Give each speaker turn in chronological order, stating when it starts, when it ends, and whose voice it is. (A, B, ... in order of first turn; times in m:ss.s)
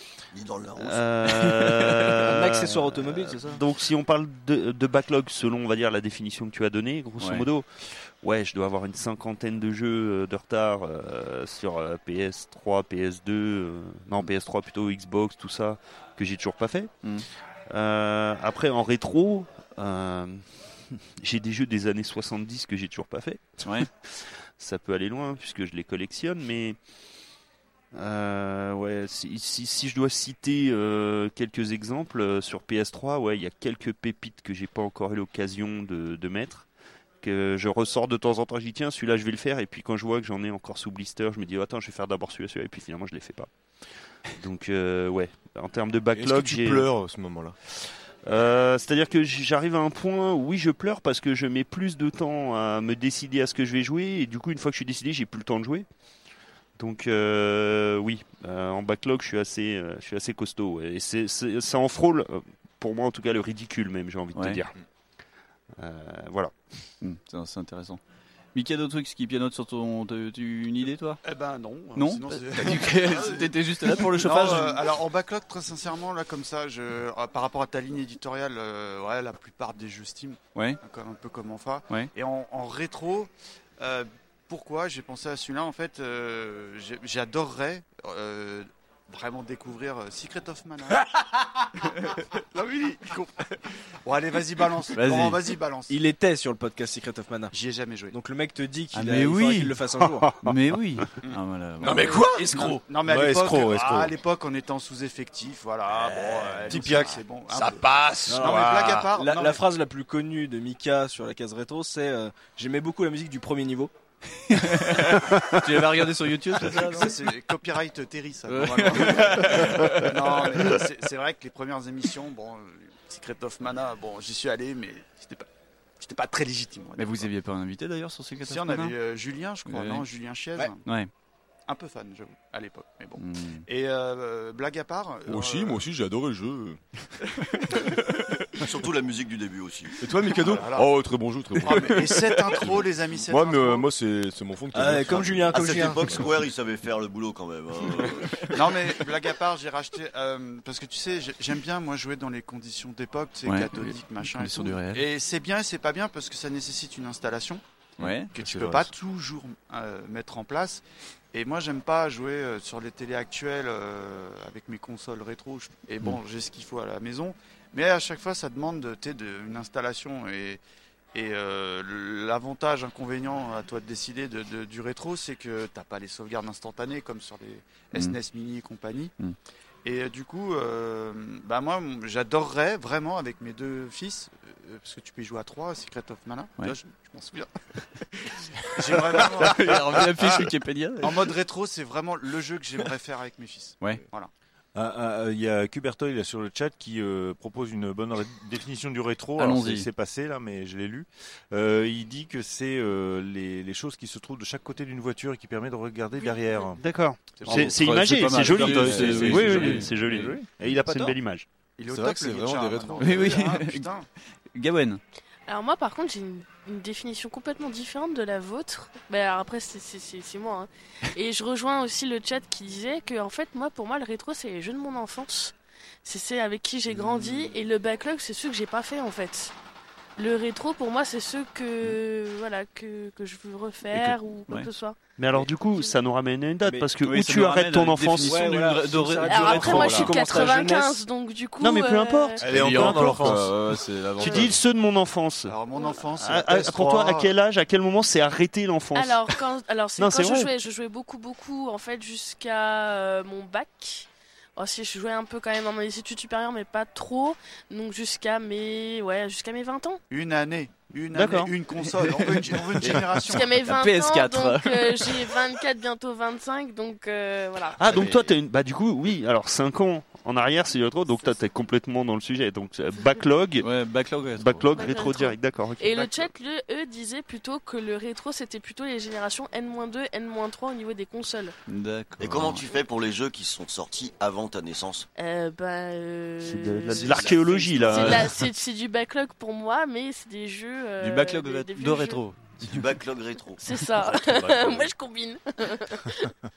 0:00.3-0:01.7 A
0:00.8-0:16.9 B
0:02.2-0:03.6 C
0:07.2-0:07.5 D
0:17.7-0:26.8 B
0:23.6-0:23.9 D
0:27.9-0:36.7 B
0:37.2-0:43.5 B
0:44.4-0:46.9 B
0:46.1-0:47.6 E
0:48.2-0:55.9 B
0:56.8-1:04.7 B
1:04.4-1:04.6 D
1:05.8-1:06.5 B
1:07.0-1:08.0 D
1:08.6-1:11.2 D
1:11.2-1:31.1 F
1:12.0-1:14.9 D
1:20.6-1:20.8 D
1:31.8-1:35.9 F
1:35.0-1:35.6 D
1:35.9-1:37.5 C
1:37.5-1:38.2 F
1:38.1-1:40.4 C
1:38.9-1:39.7 D
1:40.4-1:42.8 D
1:41.8-1:42.8 E
1:41.9-1:49.6 F
1:43.0-1:44.2 G
1:46.1-1:46.9 E
1:46.7-1:47.2 G
1:47.5-1:48.9 E
1:48.3-1:53.9 C
1:54.5-1:57.3 D
1:56.8-2:05.5 F
1:58.5-2:00.8 D
2:06.0-2:07.3 F
2:07.0-2:09.0 D
2:08.4-2:10.8 F
2:09.7-2:10.1 D
2:10.8-2:11.1 D
2:11.7-2:15.8 F
2:13.2-2:13.6 D
2:15.3-2:16.8 E
2:18.6-2:20.0 A
2:20.0-2:26.4 E
2:20.4-2:20.9 F
2:21.6-2:23.9 F
2:21.7-2:22.4 D
2:24.7-2:26.2 C
2:25.5-2:28.6 A
2:28.5-2:37.6 F
2:33.5-2:35.0 D
2:38.0-2:38.3 D
2:38.0-2:38.9 E
2:38.3-2:50.6 F
2:51.1-2:59.1 F
2:59.8-3:07.6 F
3:08.1-3:10.4 F
3:09.1-3:11.3 D
3:11.0-3:14.3 F
3:14.8-3:26.8 G
3:19.4-3:19.9 D
3:26.8-3:31.5 B
3:27.4-3:27.7 F
3:27.4-3:30.3 D
3:28.5-3:29.9 E
3:28.6-3:31.1 G
3:31.8-3:34.1 F
3:31.9-3:33.5 E
3:33.0-3:33.9 D
3:34.5-3:35.0 D
3:35.5-3:49.5 H
3:50.2-3:55.0 H
3:53.9-3:54.7 D
3:55.2-3:58.5 B
3:56.6-3:56.9 C
3:57.0-4:00.5 D
3:58.2-4:01.0 C
3:59.2-4:02.4 H
4:01.6-4:03.4 B
4:02.4-4:03.6 G
4:02.4-4:04.6 E
4:04.2-4:05.6 B
4:05.5-4:07.3 F
4:06.2-4:09.4 B
4:09.0-4:20.0 H
4:10.0-4:10.5 B
4:20.1-4:23.6 F
4:21.1-4:21.5 B
4:22.3-4:23.0 D
4:23.2-4:27.8 H
4:23.7-4:25.0 C
4:24.1-4:24.5 D
4:27.8-4:33.7 B
4:27.8-4:28.3 A
4:33.6-4:34.7 D
4:34.4-4:36.3 B
4:34.7-4:41.5 H
4:41.7-4:42.6 D
4:42.2-4:45.1 A
4:45.2-4:52.2 H
4:46.4-4:48.4 B
4:46.9-4:48.1 A
4:47.9-4:48.3 D
4:51.0-4:52.8 D
4:52.6-4:53.6 A
4:53.6-4:56.3 H
4:54.3-4:54.9 G